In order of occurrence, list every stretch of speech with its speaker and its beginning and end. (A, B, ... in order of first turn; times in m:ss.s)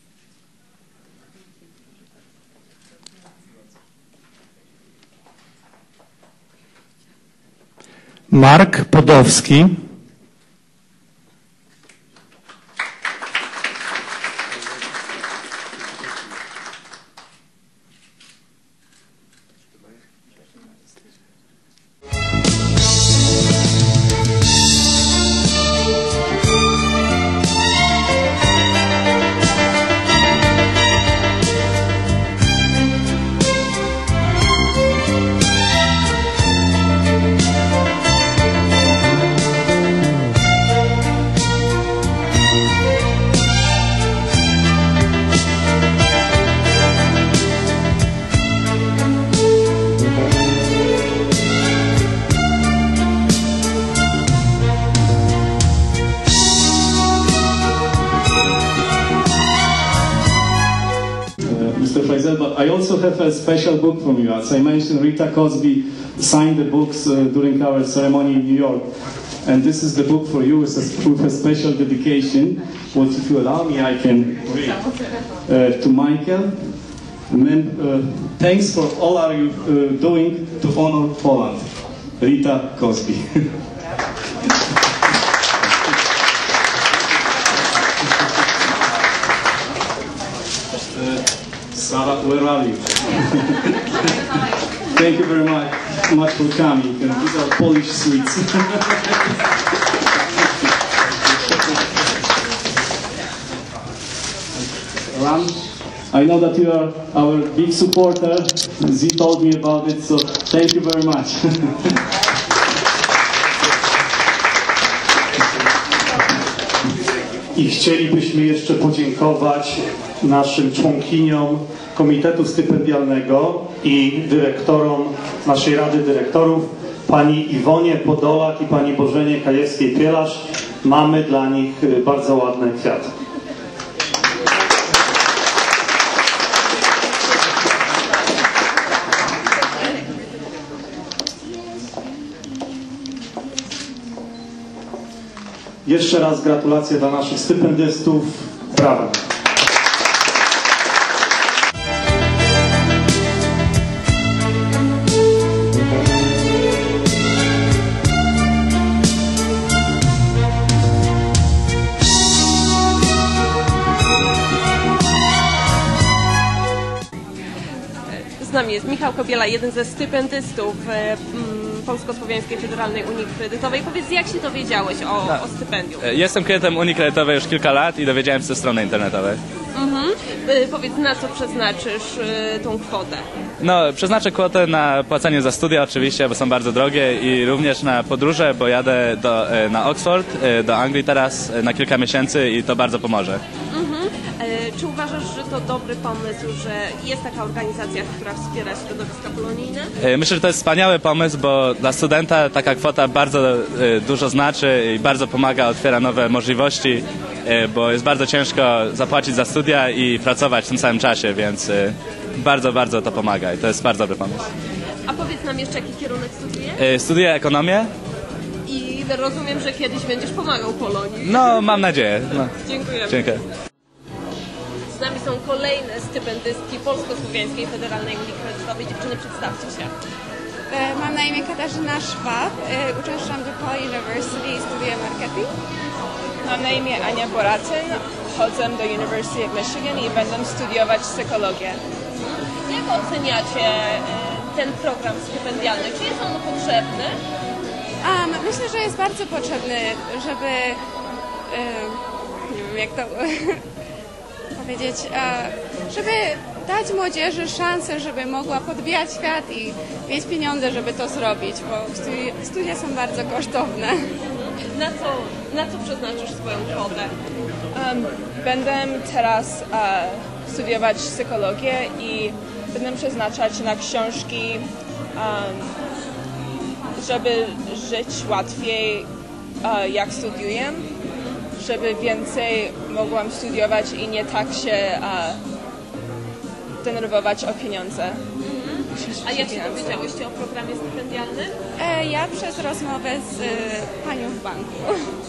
0:08.3-0:09.8 A
1:01.4-1:14.8 B
1:15.4-1:23.5 B
1:30.9-1:34.0 B
1:34.9-1:39.0 B
1:45.1-1:52.0 B
1:57.5-2:13.1 A
2:25.8-2:29.2 A
2:48.4-2:56.1 C
2:56.0-2:59.4 D
2:59.7-3:03.2 C
3:03.6-3:13.4 D
3:13.7-3:19.9 C
3:20.0-3:34.5 D
3:35.0-3:36.8 C
3:36.8-3:37.9 D
3:38.6-3:43.4 C
3:41.2-3:42.5 D
3:43.1-3:43.4 D
3:44.9-3:49.9 C
3:50.7-3:55.5 E
3:56.4-4:01.8 F
4:02.1-4:07.2 C
4:08.0-4:10.8 E
4:11.5-4:13.6 E
4:14.6-4:24.1 E
4:24.2-4:27.1 C
4:27.7-4:35.7 F
4:37.0-4:39.1 F
4:39.6-4:40.9 F
4:41.1-4:41.4 C
4:41.6-4:45.4 F
4:46.8-4:48.2 F
4:48.4-4:51.5 C
4:48.9-4:49.9 F
4:51.8-4:54.9 E